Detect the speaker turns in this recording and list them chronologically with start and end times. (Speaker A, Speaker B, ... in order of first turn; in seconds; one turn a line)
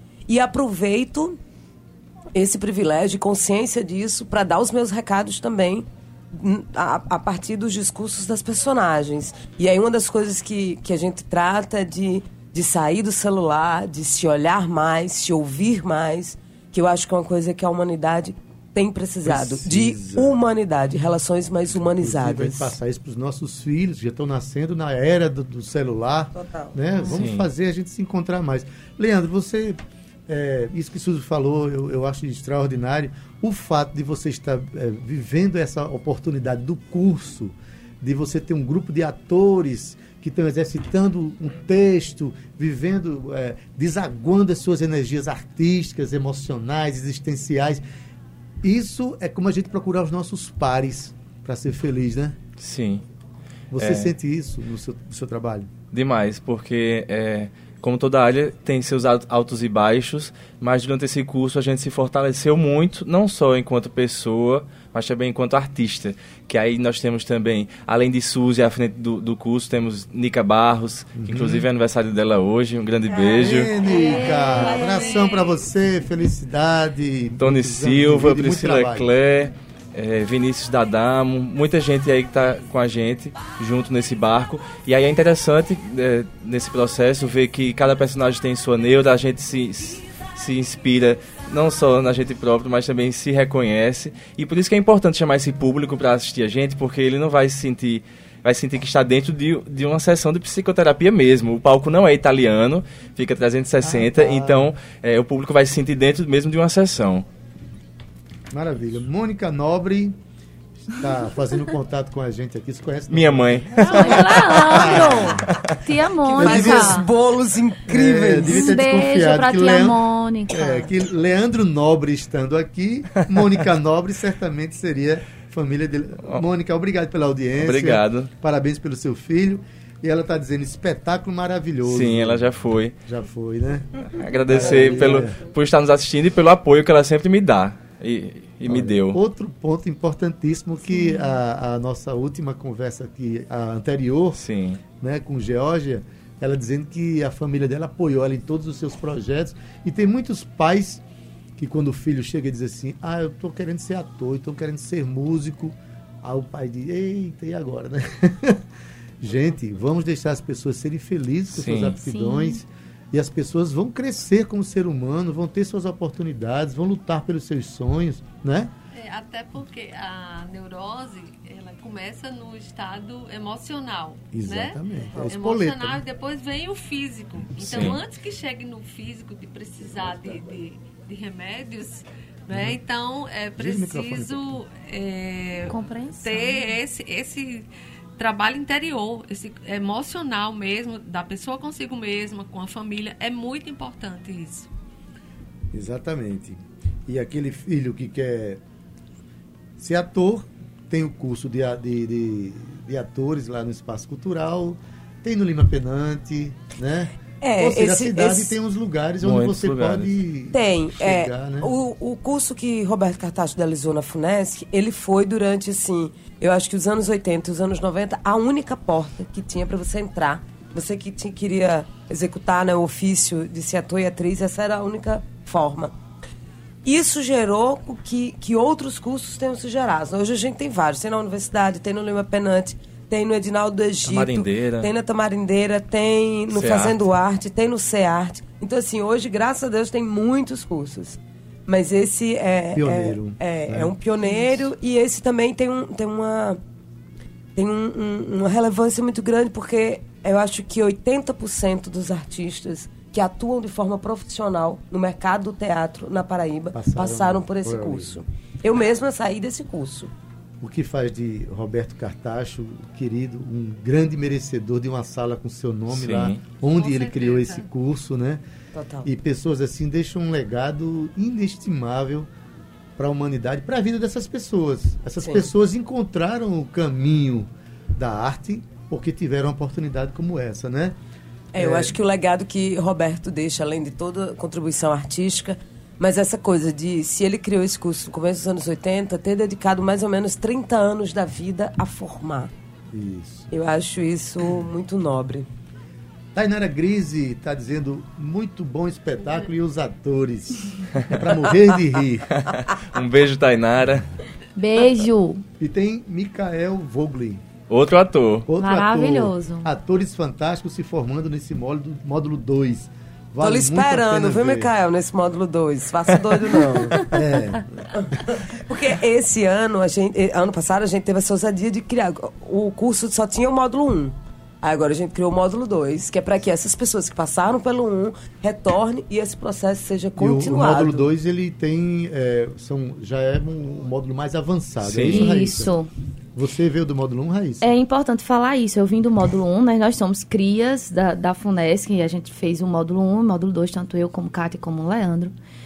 Speaker A: 0.3-1.4
Speaker A: 2.3-22.7
Speaker B: 19.2-20.4
Speaker B: 21.9-47.8
Speaker A: 26.3-26.8
Speaker C: 27.0-27.4
Speaker B: 48.6-52.4
Speaker C: 52.6-53.0
Speaker B: 53.7-55.7
Speaker C: 53.8-54.1
Speaker C: 55.9-73.7
Speaker B: 71.2-71.7
Speaker B: 73.2-79.1
Speaker D: 73.9-75.1
Speaker E: 74.0-75.3
Speaker C: 77.4-107.2
Speaker B: 103.8-104.7
Speaker B: 108.5-110.2
Speaker B: 110.9-115.5
Speaker C: 113.1-115.6
Speaker D: 113.8-117.1
Speaker B: 116.3-117.1
Speaker A: 116.3-118.7
Speaker B: 117.9-135.4
Speaker D: 118.5-120.9
Speaker C: 127.6-128.3
Speaker C: 131.8-132.9
Speaker C: 134.1-139.2
Speaker B: 138.6-144.4
Speaker D: 141.0-141.2
Speaker C: 144.4-144.8
Speaker B: 145.0-151.0
Speaker B: 151.6-158.6
Speaker B: 159.2-168.7
Speaker C: 161.5-162.0
Speaker D: 161.9-162.6
Speaker E: 168.9-194.7
Speaker B: 174.3-176.0
Speaker C: 177.6-178.0
Speaker B: 182.5-182.8
Speaker B: 183.6-184.6
Speaker D: 185.7-186.7
Speaker B: 195.7-198.6
Speaker B: 199.8-211.7
Speaker A: 207.4-208.5
Speaker C: 209.2-210.1
Speaker A: 210.5-225.9
Speaker A: 226.8-246.6
Speaker C: 234.0-234.9
Speaker C: 236.5-237.0
Speaker B: 242.7-243.9
Speaker A: 247.6-260.1
Speaker B: 256.7-258.2
Speaker B: 260.6-268.4
Speaker C: 265.9-266.4
Speaker E: 266.6-267.6
Speaker A: 268.7-269.1
Speaker B: 269.0-272.3
Speaker B: 273.0-280.9
Speaker A: 281.5-292.5
Speaker B: 281.6-282.0
Speaker B: 292.9-293.5
Speaker A: 293.5-295.5
Speaker B: 296.3-302.4
Speaker C: 302.4-304.1
Speaker D: 304.6-305.4
Speaker B: 305.6-307.4
Speaker C: 307.7-308.5
Speaker B: 308.5-314.7
Speaker D: 308.6-309.7
Speaker A: 313.4-317.2
Speaker B: 317.0-317.9
Speaker A: 317.9-331.1
Speaker B: 330.1-335.7
Speaker C: 334.8-335.3
Speaker D: 335.1-335.9
Speaker B: 336.3-337.7
Speaker D: 337.6-345.3